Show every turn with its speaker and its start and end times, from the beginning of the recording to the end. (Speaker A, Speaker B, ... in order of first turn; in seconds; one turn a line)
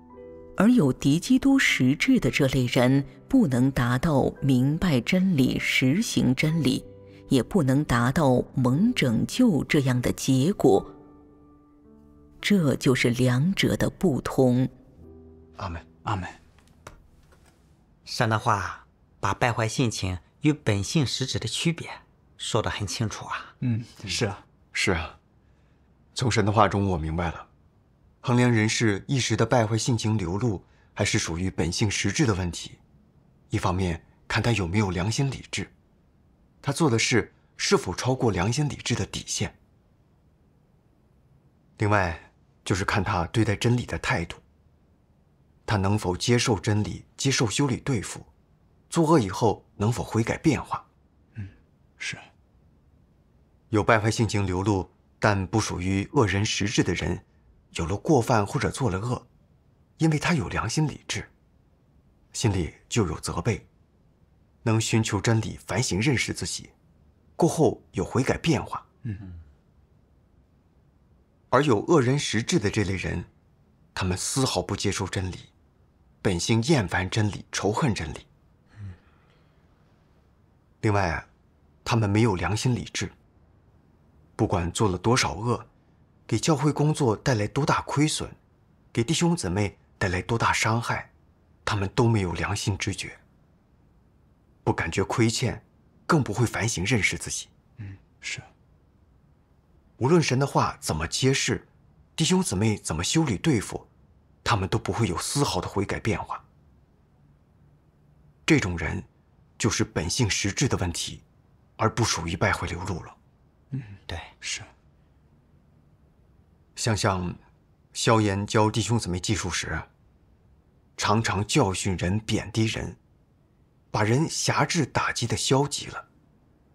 Speaker A: 0.6-10.9
Speaker A: 12.4-14.7
Speaker B: 15.6-15.8
Speaker C: 16.0-16.4
Speaker D: 18.1-23.5
Speaker C: 23.6-24.4
Speaker B: 24.7-25.2
Speaker B: 26.1-27.5
Speaker B: 28.2-32.8
Speaker B: 33.5-35.7
Speaker B: 36.6-39.5
Speaker B: 41.8-44.4
Speaker B: 45.6-48.3
Speaker B: 48.9-50.9
Speaker C: 51.3-52.2
Speaker B: 53.7-59.3
Speaker B: 60.0-61.3
Speaker B: 62.3-63.7
Speaker B: 64.6-66.7
Speaker B: 67.4-68.8
Speaker B: 71.5-73.3
Speaker B: 73.9-75.5
Speaker B: 76.2-78.3
Speaker B: 80.8-81.3
Speaker B: 81.8-83.1
Speaker B: 84.4-85.7
Speaker B: 86.3-88.4
Speaker B: 88.9-91.1
Speaker B: 91.7-93.2
Speaker B: 94.6-97.5
Speaker C: 97.8-98.5
Speaker B: 100.0-103.9
Speaker B: 104.4-106.4
Speaker B: 108.5-111.2
Speaker B: 111.8-113.1
Speaker C: 113.7-114.7
Speaker B: 116.8-117.4
Speaker B: 117.9-119.9
Speaker B: 121.0-123.0
Speaker B: 123.9-126.0